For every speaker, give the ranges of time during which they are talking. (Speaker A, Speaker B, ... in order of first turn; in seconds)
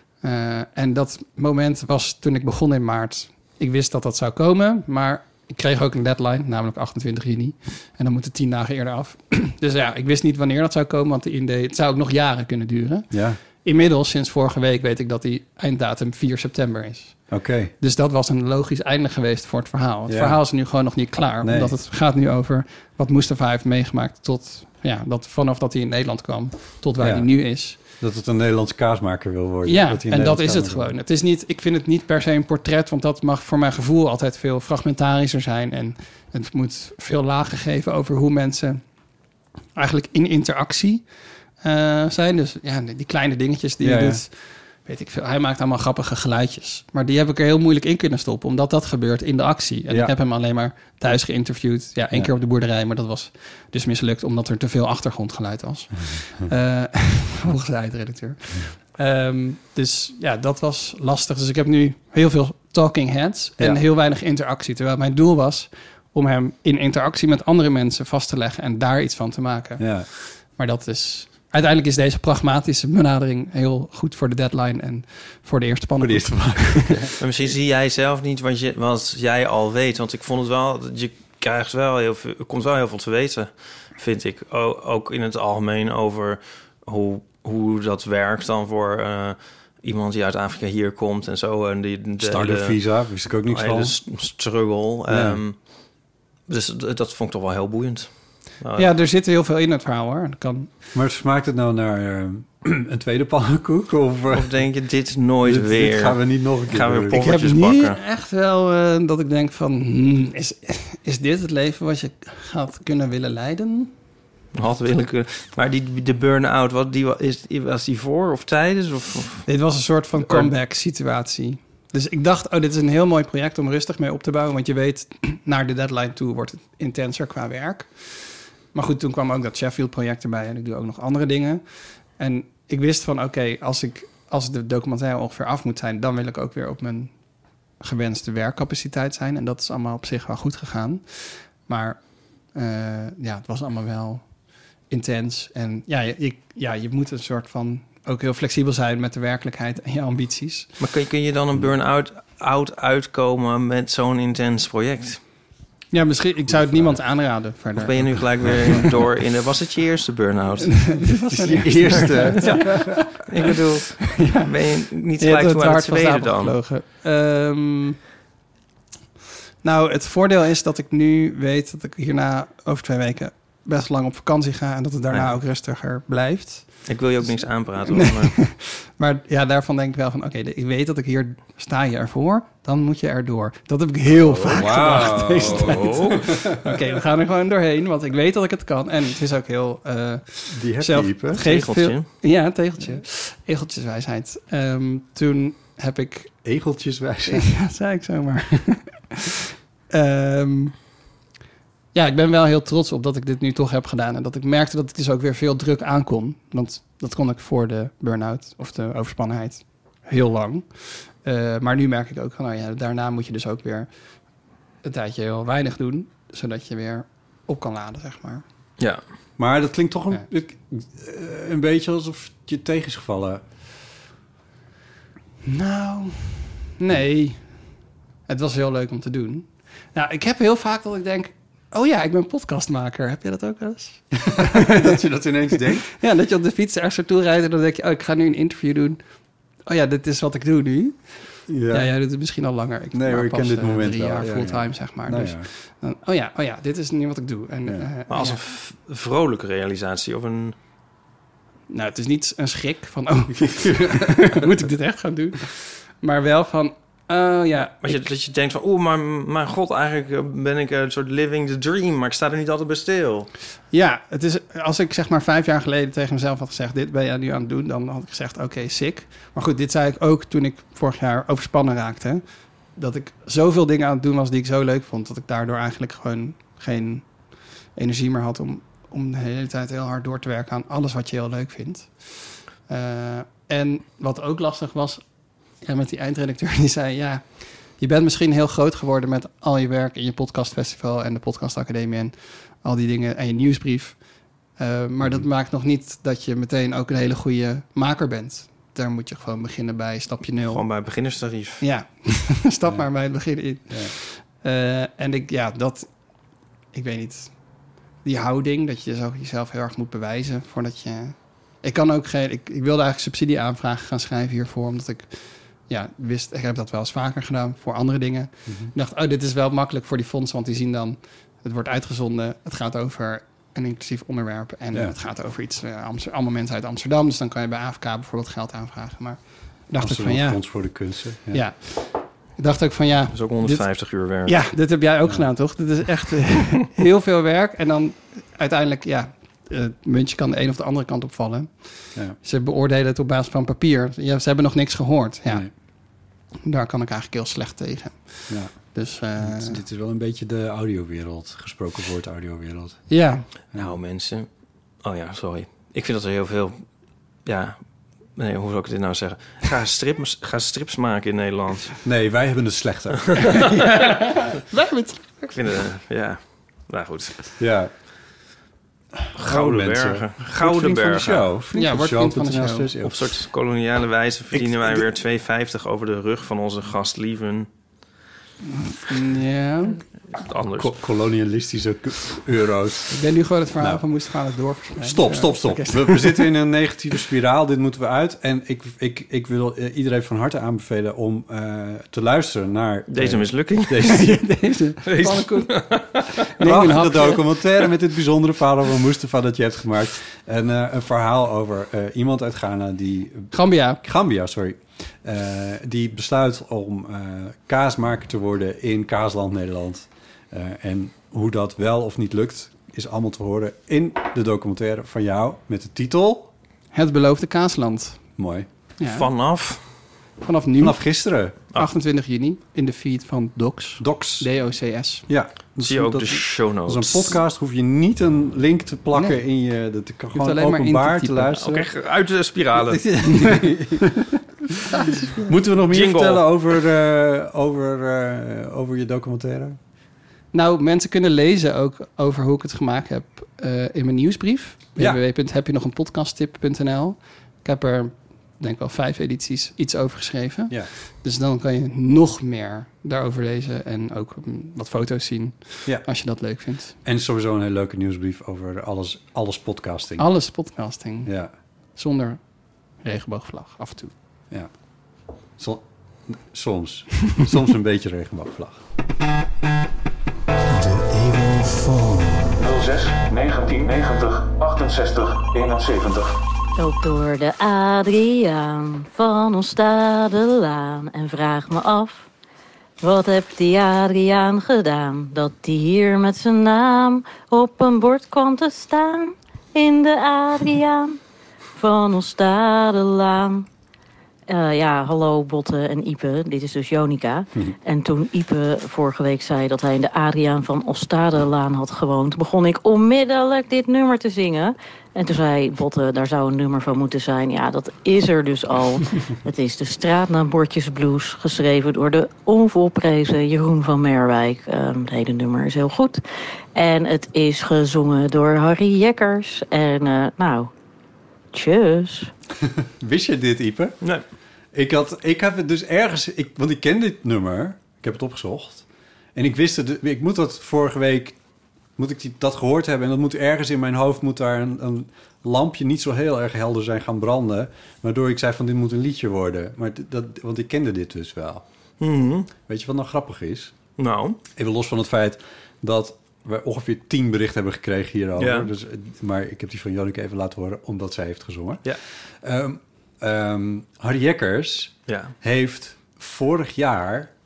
Speaker A: 0.2-27.8, 29.6-38.8, 39.7-41.1, 41.6-77.1, 98.8-100.7, 107.1-113.9, 119.5-137.1, 137.8-150.7, 155.9-158.5, 160.8-163.0, 164.1-164.5, 165.2-168.0, 169.6-196.4, 197.3-199.3, 199.9-200.8, 201.9-213.9, 214.8-218.4, 225.4-227.7, 228.3-235.0, 235.5-239.0, 239.7-248.4, 251.7-258.0, 263.7-272.2, 272.7-285.1, 285.6-300.6, 301.6-306.1, 306.7-330.7, 331.3-345.5, 346.4-349.6, 352.9-353.2, 364.5-365.3, 371.5-372.7, 378.5-379.9, 382.9-386.3, 393.8-397.2, 403.3-403.8, 416.7-418.0, 418.8-419.1, 420.2-425.1, 428.9-429.2, 430.1-431.3, 432.8-433.9, 434.9-435.3, 440.3-456.8, 460.0-461.1, 461.7-462.2, 462.8-463.9
Speaker B: 13.1-13.4, 17.3-17.7, 20.1-20.4, 21.4-21.8, 27.0-30.9, 43.8-44.2, 49.9-50.1, 69.8-70.1, 76.0-77.1, 92.2-94.0, 95.1-95.4, 100.9-104.6, 105.4-107.2, 156.5-157.0, 158.4-158.8, 161.3-163.2, 184.2-186.7, 190.5-191.4, 196.4-197.5, 219.4-223.4, 234.3-235.9, 241.5-241.9, 242.9-245.5, 253.4-254.0, 302.6-302.9, 303.7-303.9, 318.4-318.7, 329.8-331.4, 345.2-345.5, 348.3-353.8, 361.8-363.6, 367.4-367.7, 369.2-373.1, 374.3-374.8, 380.6-383.0, 383.6-383.9, 384.8-394.2, 396.4-416.3, 418.2-418.5, 420.6-421.4, 423.8-424.3, 425.1-431.7, 433.1-433.9, 435.2-439.6, 456.8-460.1, 461.0-461.3, 465.4-468.6, 470.6-472.3, 522.5-523.8, 524.5-531.2, 531.8-541.4, 542.5-543.5, 544.4-551.7, 552.2-557.1
Speaker C: 77.2-92.8, 93.5-95.7, 96.5-98.9, 104.3-108.0, 114.5-119.5, 120.2-120.5, 150.8-155.2, 157.8-161.1, 163.3-166.6, 176.9-178.4, 185.6-186.3, 191.4-192.1, 248.1-250.6, 257.8-263.3, 300.5-301.6, 333.1-334.4, 353.5-354.3, 354.8-356.6, 357.2-357.6, 358.1-361.8, 365.3-367.2, 369.1-371.3, 372.8-377.5, 380.1-380.7, 392.9-394.0, 394.9-396.1, 418.8-419.6, 425.6-427.2, 431.4-433.3, 435.7-436.6, 541.8-542.3, 543.8-544.2, 548.2-548.5, 554.9-555.1
Speaker D: 472.4-476.1
Speaker E: 476.6-482.1, 482.8-491.0, 491.6-493.5, 494.3-516.0, 516.5-520.5, 521.3-522.1